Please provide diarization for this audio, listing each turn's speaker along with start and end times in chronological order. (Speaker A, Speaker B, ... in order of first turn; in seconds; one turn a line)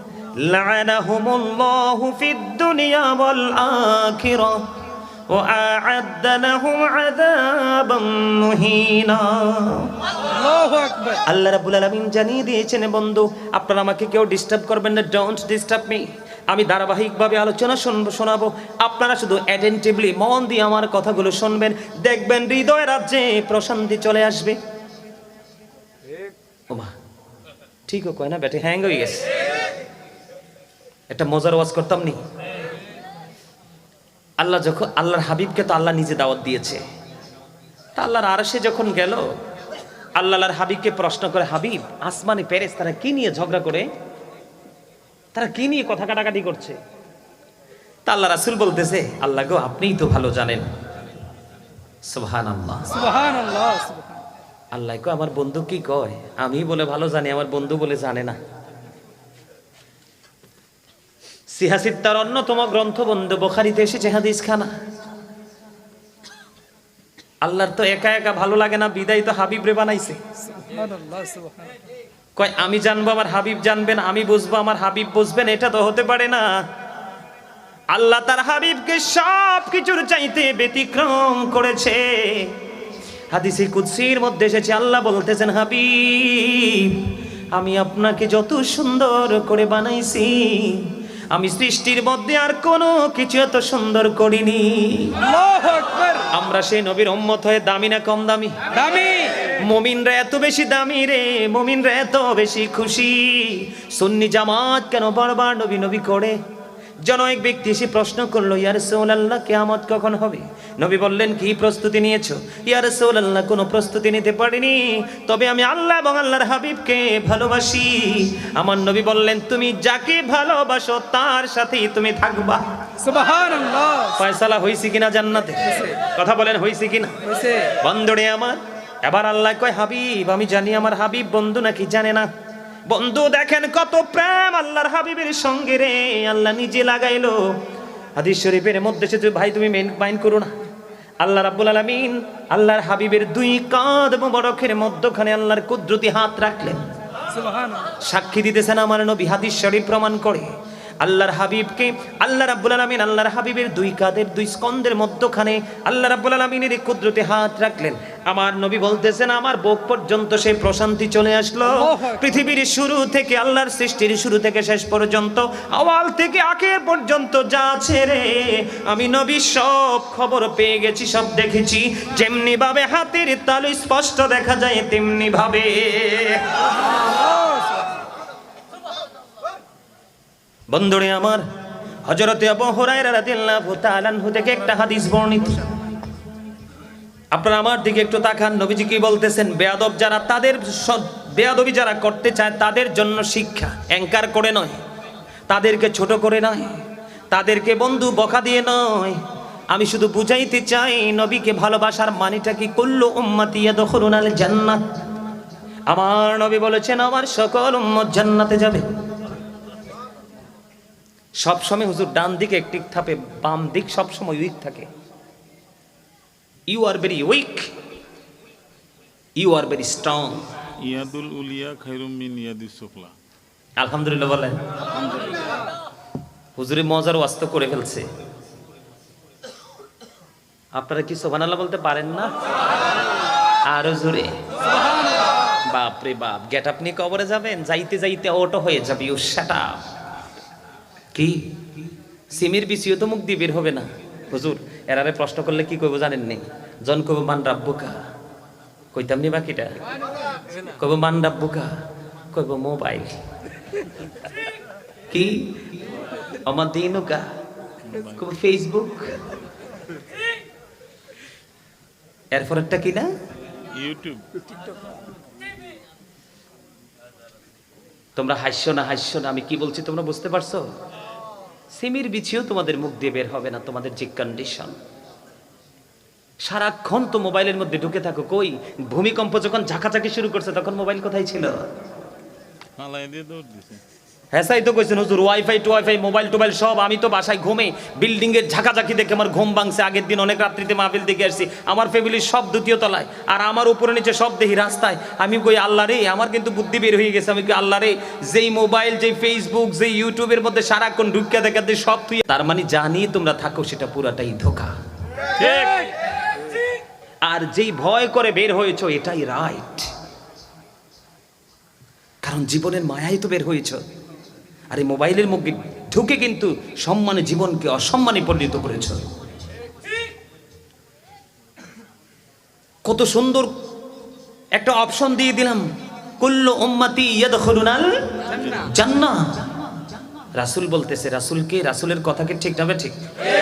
Speaker A: 0.4-4.6
Speaker A: 5.3-9.9
Speaker B: 10.3-11.2
Speaker A: 11.3-24.6
Speaker A: 27.9-29.3
Speaker A: 31.1-32.2
Speaker A: 34.4-36.8
Speaker A: 38.0-39.2
Speaker A: 40.2-43.9
Speaker A: 45.3-46.8
Speaker A: 48.0-50.7
Speaker A: 52.1-52.9
Speaker B: 52.9-54.2
Speaker A: 54.7-58.4
Speaker A: 61.5-64.7
Speaker A: 67.4-70.2
Speaker B: 70.5-71.8
Speaker A: 72.3-76.5
Speaker A: 77.9-82.5
Speaker A: 83.3-95.2
Speaker B: 95.2-96.3
Speaker A: 96.3-98.6
Speaker B: 98.7-99.4
Speaker A: 99.6-106.3
Speaker A: 107.0-122.6
Speaker B: 123.0-124.2
Speaker A: 124.2-127.2
Speaker B: 127.2-127.7
Speaker A: 127.8-132.3
Speaker A: 132.9-137.6
Speaker A: 138.2-140.5
Speaker A: 141.2-146.8
Speaker B: 147.3-147.9
Speaker A: 148.0-150.5
Speaker A: 151.0-176.5
Speaker B: 161.6-162.3
Speaker B: 177.1-177.8
Speaker A: 180.7-181.4
Speaker A: 182.1-185.7
Speaker A: 187.3-194.8
Speaker A: 195.5-196.8
Speaker A: 197.3-204.8
Speaker A: 205.9-208.8
Speaker A: 211.4-214.9
Speaker A: 216.7-217.7
Speaker A: 219.4-220.4
Speaker C: 220.8-223.1
Speaker A: 223.8-224.6
Speaker A: 226.6-228.0
Speaker A: 230.8-232.3
Speaker A: 233.7-234.4
Speaker A: 235.7-239.8
Speaker A: 241.1-241.5
Speaker A: 242.3-247.9
Speaker A: 248.9-249.7
Speaker A: 250.8-251.7
Speaker A: 252.3-253.2
Speaker A: 255.1-255.6
Speaker A: 256.4-257.2
Speaker C: 257.8-258.2
Speaker A: 258.2-259.1
Speaker A: 262.3-263.1
Speaker C: 263.7-264.3
Speaker A: 268.1-270.6
Speaker A: 271.7-274.7
Speaker A: 276.4-281.7
Speaker C: 282.8-283.8
Speaker A: 284.3-304.7
Speaker C: 305.4-305.7
Speaker B: 305.4-305.7
Speaker A: 307.2-309.9
Speaker A: 312.2-313.8
Speaker A: 314.7-319.0
Speaker A: 322.8-323.5
Speaker A: 324.6-325.6
Speaker A: 326.2-329.3
Speaker C: 328.4-328.7
Speaker A: 330.4-333.0